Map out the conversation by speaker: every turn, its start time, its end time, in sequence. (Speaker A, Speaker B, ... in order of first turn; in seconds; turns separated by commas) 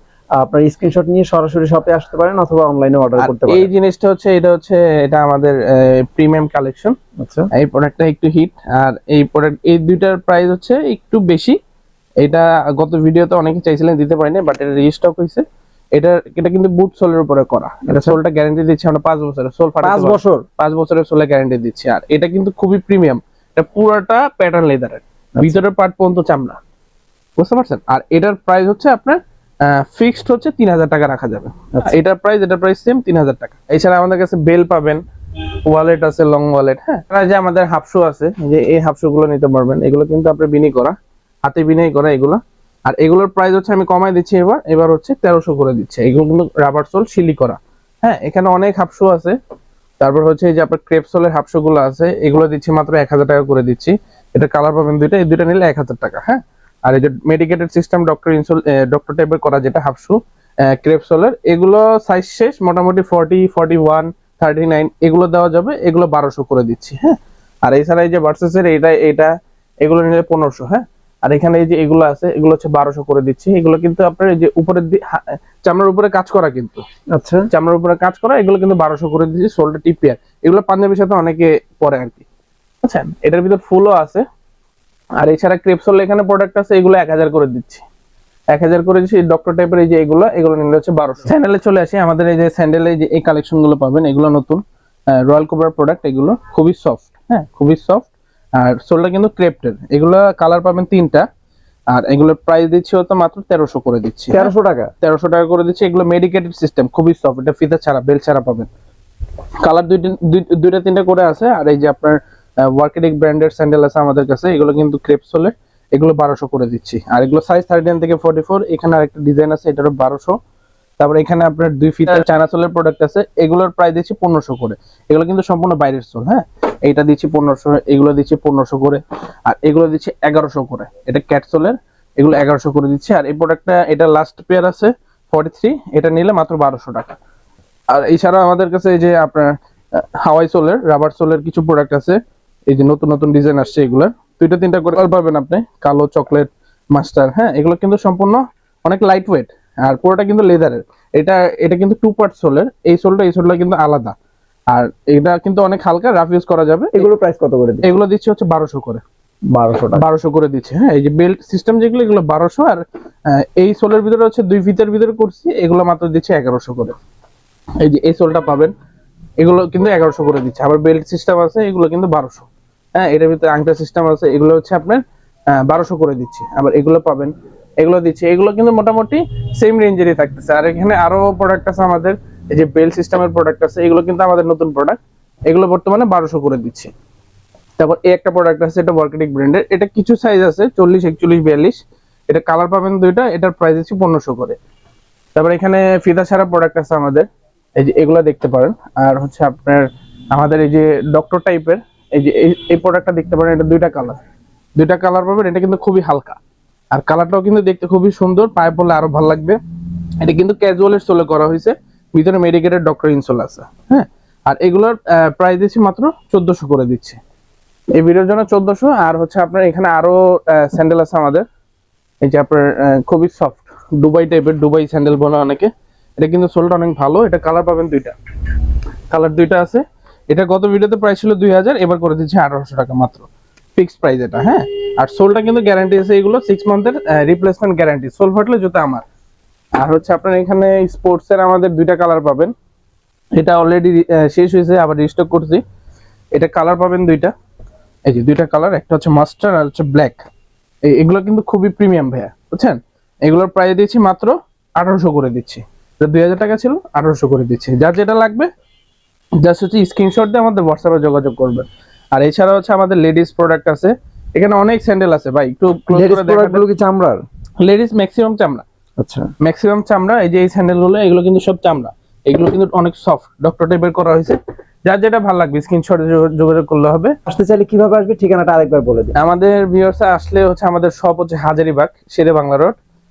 Speaker A: 0.4-3.7, Speaker B: 3.2-7.0, Speaker A: 7.2-7.5, Speaker B: 7.5-11.6, Speaker B: 12.2-15.4, Speaker B: 15.9-26.6, Speaker A: 17.9-18.2, Speaker A: 19.8-20.4, Speaker B: 27.4-35.0, Speaker B: 35.7-49.4, Speaker B: 50.0-76.8, Speaker A: 77.1-77.5, Speaker B: 77.5-82.2, Speaker B: 82.8-84.2, Speaker B: 85.2-87.8, Speaker B: 88.5-101.3, Speaker B: 101.9-104.5, Speaker A: 104.3-104.9, Speaker B: 105.0-108.7, Speaker B: 109.6-120.4, Speaker B: 121.0-137.2, Speaker B: 137.9-154.1, Speaker B: 154.7-157.1, Speaker A: 156.9-157.9, Speaker B: 157.8-159.0, Speaker A: 159.5-160.1, Speaker B: 160.0-167.0, Speaker B: 167.8-168.7, Speaker B: 169.4-186.9, Speaker B: 187.8-194.6, Speaker B: 195.3-204.2, Speaker B: 204.8-206.4, Speaker B: 206.9-209.6, Speaker B: 210.2-217.2, Speaker B: 218.0-221.4, Speaker B: 222.2-228.2, Speaker B: 229.1-239.0, Speaker B: 239.8-242.5, Speaker B: 243.4-245.6, Speaker B: 246.3-247.3, Speaker B: 248.1-250.2, Speaker B: 250.8-258.5, Speaker B: 259.4-266.6, Speaker A: 265.9-267.2, Speaker B: 267.6-268.6, Speaker A: 269.0-269.3, Speaker B: 269.4-277.1, Speaker A: 277.3-279.1, Speaker B: 279.2-282.8